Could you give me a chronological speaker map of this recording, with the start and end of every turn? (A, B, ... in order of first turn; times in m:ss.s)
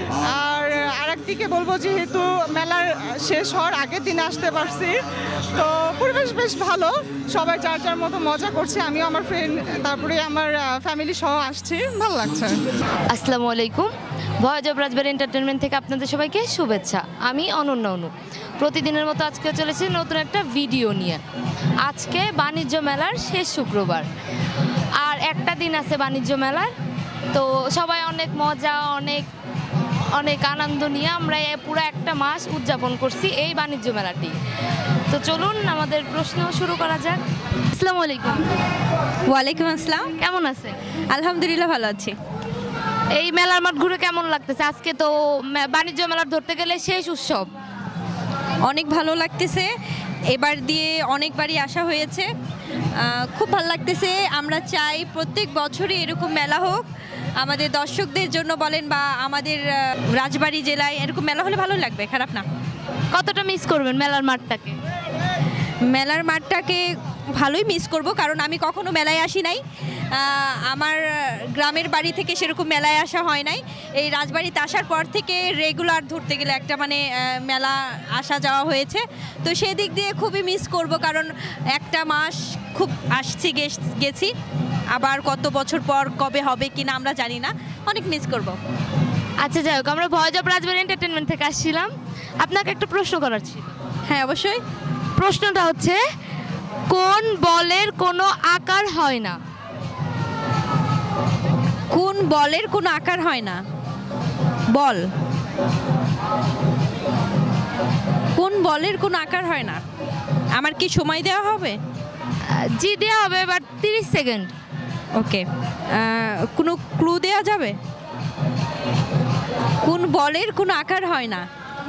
0:00.3-0:04.9 A
0:05.5-0:12.6 A
0:13.1-0:13.9 B
0:14.4-0:21.2 B
0:21.8-0:24.0 B
0:25.0-0:26.7 B
0:27.3-0:29.3 B
0:30.1-0:34.4 B
0:35.1-0:37.2 B
0:37.7-0:38.5 B
0:39.3-0:40.1 C
0:40.2-0:40.7 B
0:41.1-0:42.1 C
0:43.1-0:47.5 B
0:48.6-0:49.7 C
0:50.3-0:52.3 C
0:53.0-0:56.8 C
0:57.4-0:59.6 C
1:00.2-1:02.4 C
1:03.1-1:04.7 B
1:05.9-1:06.8 C
1:07.4-1:09.6 C
1:10.1-1:11.0 C
1:11.6-1:24.3 C
1:24.9-1:28.6 C
1:29.4-1:33.7 B
1:34.1-1:34.6 C
1:35.2-1:36.0 B
1:36.9-1:39.4 B
1:41.9-1:43.6 C
1:44.7-1:45.0 C
1:48.3-1:49.8 C
1:50.6-1:51.8 C
1:52.5-1:54.5 B
1:55.1-1:57.7 C
1:59.8-2:01.4 C